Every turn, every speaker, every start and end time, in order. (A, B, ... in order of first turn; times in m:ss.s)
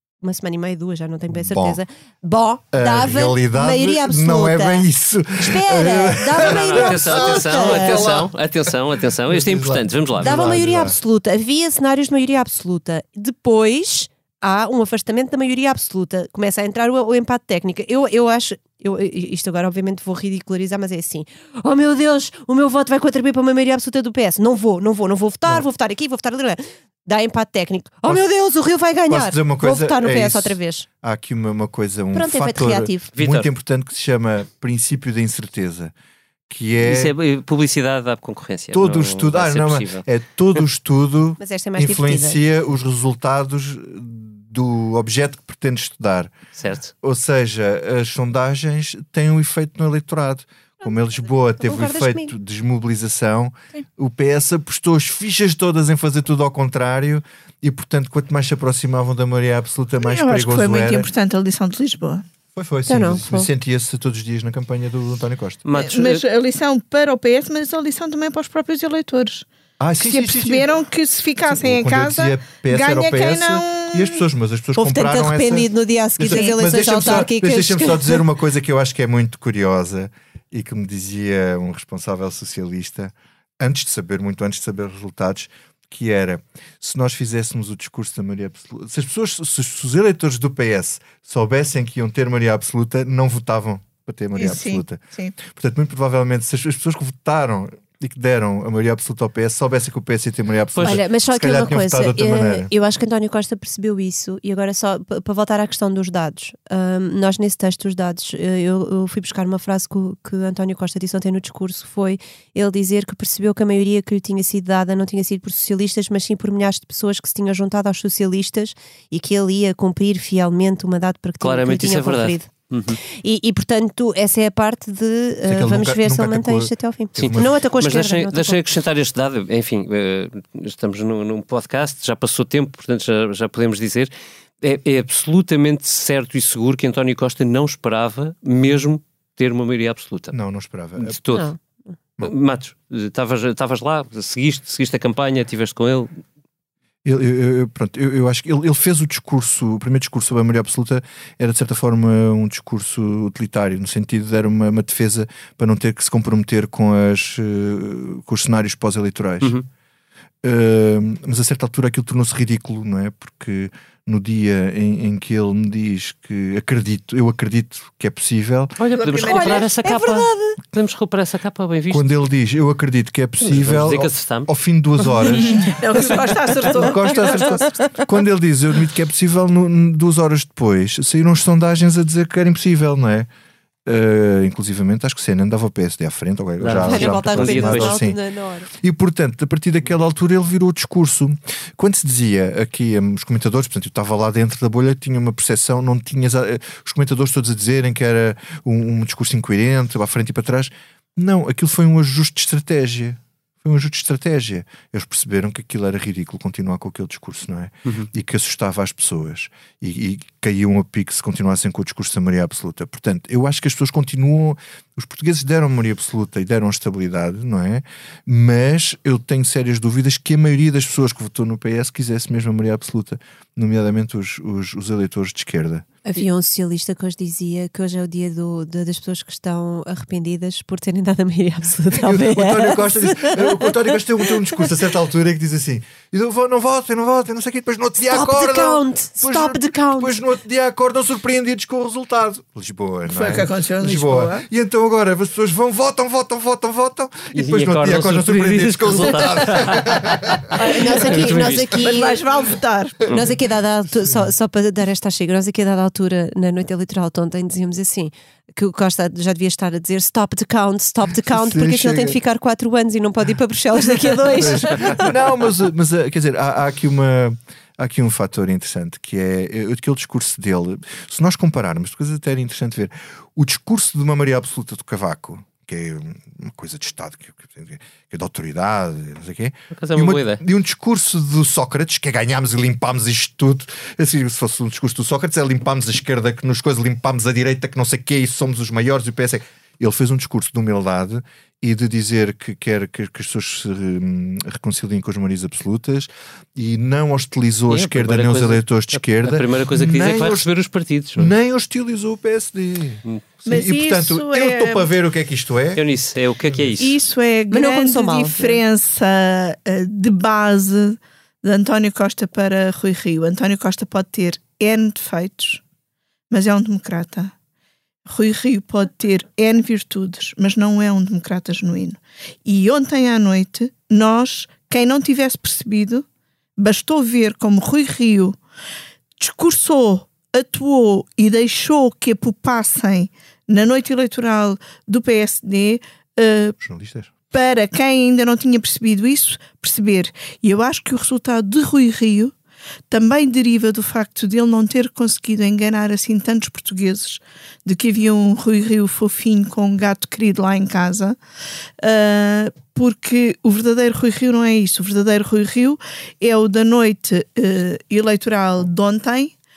0:00.2-0:04.8 A
0:01.3-0:01.8 B
0:02.7-0:08.3 B
0:05.4-0:08.2 A
0:06.4-0:10.9 C
0:09.3-0:11.0 B
0:10.2-0:30.9 A
0:29.1-0:35.9 B
0:32.1-0:33.1 A
0:33.2-0:33.5 C
0:36.5-0:37.2 B
0:36.8-0:40.0 C
0:38.7-0:46.3 B
0:41.4-0:42.4 A
0:46.6-0:46.9 C
0:47.0-1:01.1 B
0:50.8-0:52.3 A
1:00.0-1:02.2 D
1:02.5-1:05.6 B
1:02.9-1:03.5 A
1:05.7-1:06.2 C
1:05.8-1:09.5 D
1:09.8-1:10.7 B
1:10.0-1:14.2 D
1:11.4-1:42.7 B
1:14.8-1:18.2 A
1:16.3-1:16.6 D
1:34.4-1:35.4 D
1:40.8-1:41.0 C
1:40.8-2:02.5 A
2:01.4-2:03.0 C
2:03.0-2:08.6 A
2:05.5-2:07.6 B
2:07.2-2:14.1 C
2:14.6-2:20.4 C
2:20.3-2:21.2 B
2:21.0-2:21.5 C
2:21.3-2:21.6 A
2:22.2-2:26.1 C
2:27.0-2:39.6 B
2:40.4-2:48.8 B
2:48.8-2:52.3 C
2:48.9-2:49.7 D
2:49.2-2:50.6 A
2:51.9-2:55.8 B
2:53.4-2:54.5 C
2:55.7-2:57.7 D
2:56.6-3:03.3 B
3:03.9-3:08.2 B
3:06.6-3:08.0 C
3:06.8-3:08.7 A
3:08.8-3:45.9 B
3:46.0-3:54.0 A
3:52.0-4:10.4 B
3:58.0-4:00.1 A
4:03.1-4:04.4 D
4:07.3-4:11.9 C
4:10.5-4:12.2 A
4:11.3-4:13.1 D
4:13.1-4:25.1 A
4:21.1-4:22.2 B
4:24.4-5:00.5 B
4:39.7-4:40.4 C
4:57.7-5:01.3 C
5:01.2-5:05.8 B
5:03.5-5:04.9 D
5:05.8-5:07.0 C
5:06.8-5:15.6 D
5:07.5-5:08.6 A
5:16.3-5:17.3 D
5:18.1-5:26.1 D
5:26.6-5:28.4 D
5:29.2-5:36.6 D
5:36.6-5:37.1 B
5:37.3-5:42.4 D
5:42.9-5:51.2 D
5:51.8-5:59.4 D